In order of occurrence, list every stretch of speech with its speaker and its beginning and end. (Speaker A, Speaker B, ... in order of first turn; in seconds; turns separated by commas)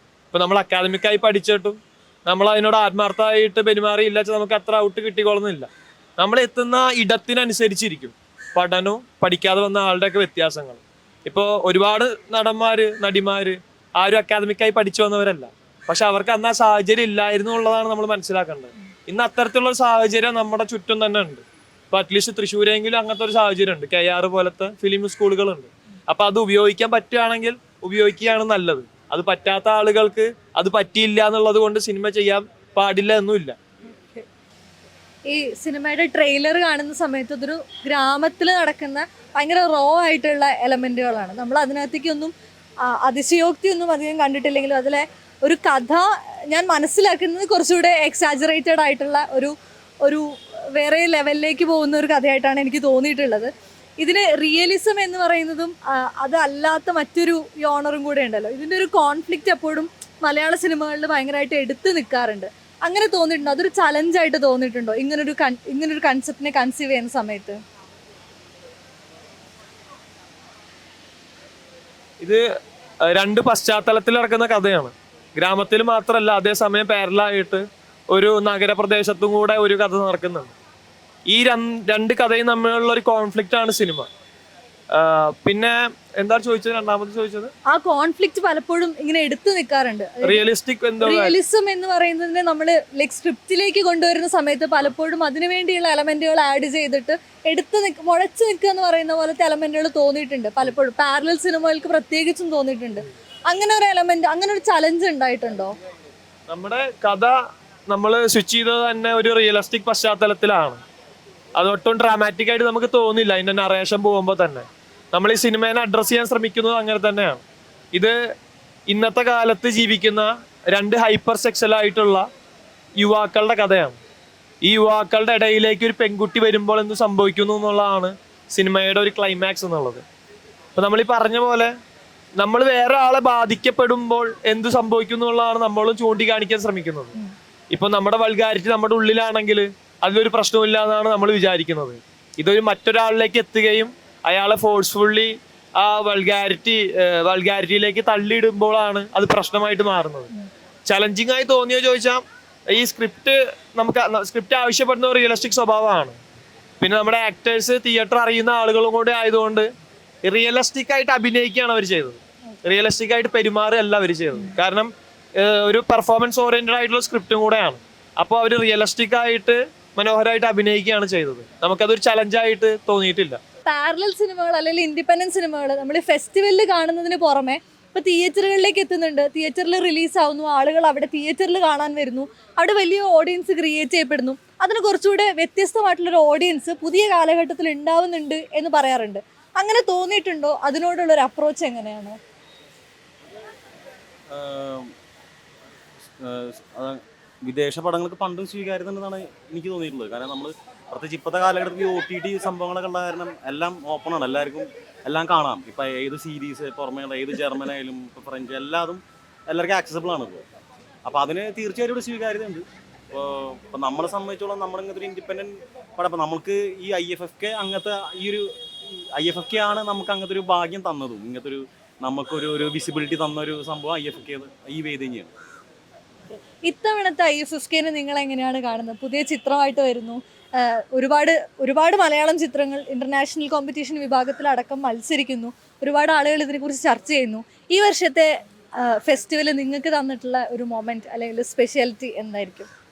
Speaker A: 0.3-33.6, Speaker B: 35.3-42.3, Speaker B: 42.9-67.6, Speaker A: 73.1-80.5, Speaker A: 81.3-84.1, Speaker A: 84.9-87.5, Speaker B: 87.7-90.4, Speaker A: 90.2-91.4, Speaker B: 91.0-105.7, Speaker A: 106.5-107.3, Speaker A: 107.9-110.8, Speaker A: 111.5-118.1, Speaker A: 118.9-122.3, Speaker A: 123.0-124.0, Speaker A: 124.6-130.0, Speaker A: 130.8-131.7, Speaker A: 132.4-137.1, Speaker A: 137.7-150.3, Speaker A: 150.8-156.2, Speaker A: 156.8-159.7, Speaker A: 160.2-173.4, Speaker B: 173.7-192.2, Speaker C: 194.3-194.9, Speaker C: 196.2-210.4, Speaker C: 211.1-225.3, Speaker B: 226.7-238.3, Speaker B: 238.8-242.7